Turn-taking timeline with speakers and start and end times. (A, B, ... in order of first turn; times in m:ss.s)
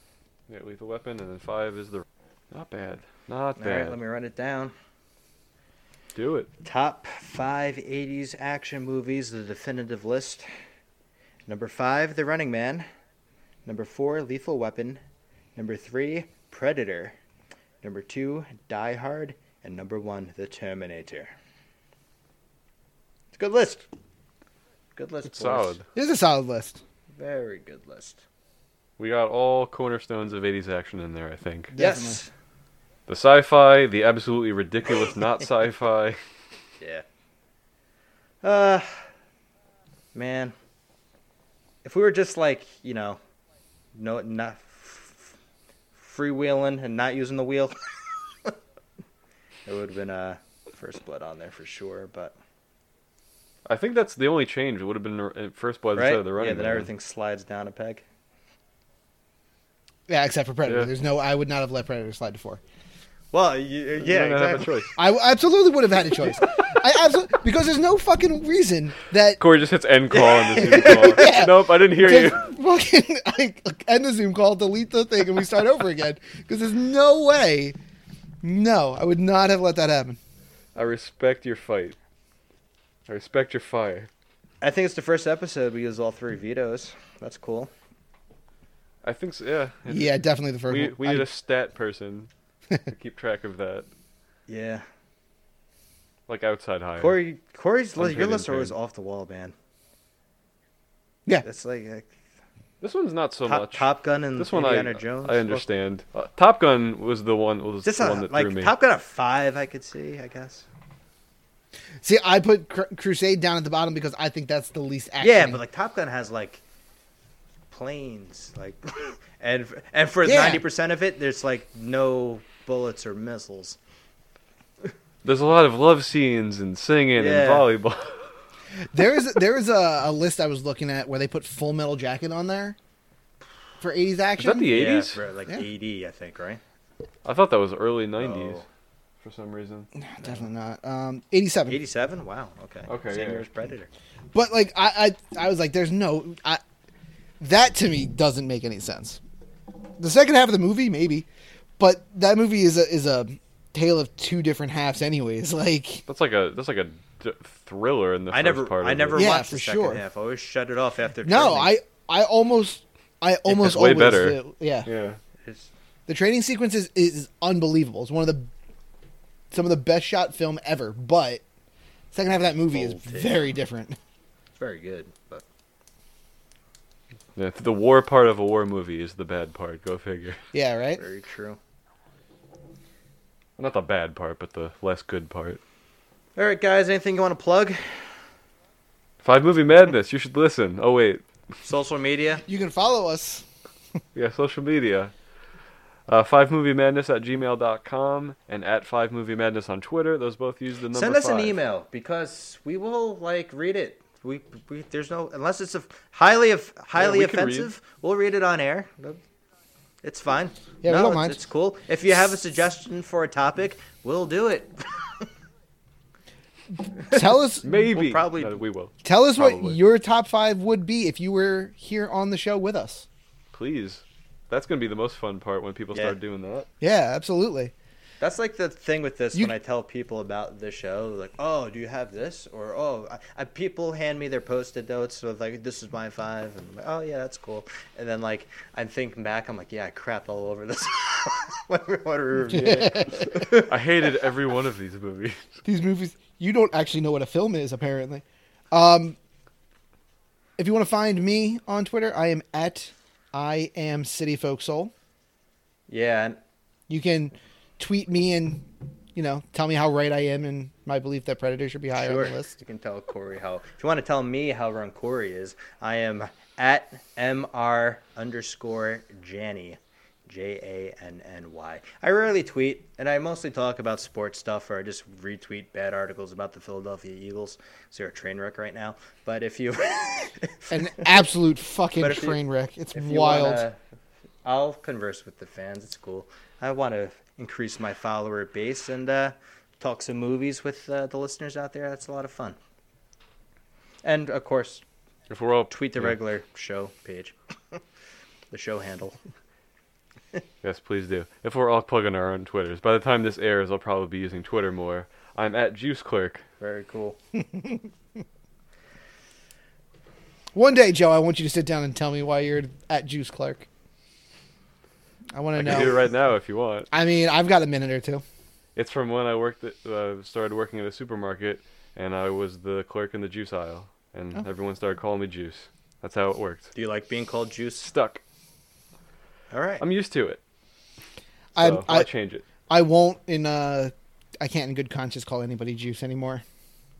0:00.5-0:04.0 A
0:03.6-0:04.7 B
0:06.1-0:06.5 A
0:06.6-0:10.4 B
0:11.5-0:12.8 B
0:13.6-0:15.0 B
0:15.6-0:17.2 B
0:17.8-0:21.3 B
0:23.3-0:23.8 B
0:25.0-0:25.8 B
0:25.2-0:25.8 A
0:25.9-0:26.8 C
0:27.2-0:28.2 B
0:29.0-0:31.7 A
0:31.7-0:32.2 C
0:31.7-0:32.3 B
0:33.1-0:36.2 A
0:36.8-0:37.0 B
0:38.4-0:39.0 B
0:40.1-0:40.5 B
0:41.8-0:43.2 B
0:43.9-0:45.3 B
0:46.0-0:47.9 B
0:49.6-0:52.4 B
0:53.7-0:56.9 A
0:56.0-0:58.0 B
1:00.1-1:02.6 C
1:03.3-1:04.8 B
1:04.0-1:04.9 A
1:05.0-1:09.4 C
1:09.4-1:12.5 A
1:10.1-1:11.2 B
1:10.6-1:17.8 C
1:18.4-1:20.2 C
1:20.7-1:22.0 A
1:23.1-1:24.1 A
1:24.6-1:27.7 B
1:29.0-1:32.3 A
1:29.9-1:31.3 C
1:32.9-1:33.9 A
1:34.5-1:34.8 B
1:36.3-1:37.2 A
1:37.0-1:39.5 B
1:38.0-1:38.7 A
1:41.4-1:42.1 B
1:42.8-1:48.7 A
1:43.4-1:45.7 B
1:47.8-1:50.6 B
1:52.0-1:55.6 C
1:55.2-1:56.6 B
1:57.7-2:03.8 B
2:00.2-2:00.6 C
2:05.2-2:08.3 A
2:07.2-2:07.7 B
2:08.9-2:12.8 C
2:13.8-2:14.7 C
2:14.4-2:15.2 A
2:14.7-2:16.6 B
2:17.2-2:18.6 A
2:18.2-2:18.6 B
2:19.2-2:19.9 A
2:20.0-2:21.8 C
2:21.7-2:23.9 B
2:22.9-2:23.4 A
2:24.3-2:26.6 C
2:27.4-2:29.2 C
2:30.0-2:31.2 C
2:31.8-2:36.0 C
2:36.1-2:39.3 A
2:38.3-2:41.7 B
2:39.1-2:40.0 C
2:41.2-2:44.9 C
2:43.5-2:45.2 A
2:45.4-2:45.7 B
2:46.1-2:48.5 C
2:49.5-2:51.4 C
2:52.1-2:54.0 C
2:52.7-2:53.5 B
2:54.6-2:55.4 B
2:57.4-3:00.4 A
3:00.5-3:01.0 C
3:01.0-3:01.6 B
3:03.6-3:05.6 A
3:06.4-3:08.2 B
3:09.2-3:11.2 A
3:11.6-3:12.4 B
3:12.5-3:13.4 C
3:14.1-3:15.1 A
3:16.1-3:21.6 A
3:20.9-3:29.2 B
3:27.0-3:27.7 A
3:30.0-3:35.2 B
3:30.8-3:31.4 C
3:37.1-3:37.6 C
3:37.6-3:39.8 A
3:37.7-3:38.6 B
3:39.0-3:43.0 C
3:43.5-3:46.7 A
3:46.8-3:47.7 C
3:48.2-4:03.7 B
4:02.5-4:03.4 C
4:02.5-4:05.6 A
4:05.6-4:09.2 C
4:10.6-4:14.9 C
4:15.9-4:16.4 B
4:16.9-4:22.6 C
4:22.0-4:41.1 B
4:40.7-4:43.6 C
4:42.0-4:42.4 B
4:42.9-4:43.8 B
4:44.4-4:52.6 B
4:54.0-4:54.8 B
4:55.3-4:56.2 A
4:55.7-4:57.8 B
4:58.5-4:59.2 B
5:00.6-5:06.4 A
5:06.6-5:07.2 B
5:07.3-5:07.8 C
5:10.5-5:13.7 C
5:15.3-5:16.0 C
5:15.5-5:16.9 A
5:16.9-5:18.2 C
5:18.8-5:26.7 A
5:26.7-5:27.9 B
5:27.8-5:28.2 A
5:29.5-5:29.8 B
5:29.8-5:30.4 A
5:31.6-5:32.1 C
5:31.6-5:32.4 A
5:32.7-5:36.4 C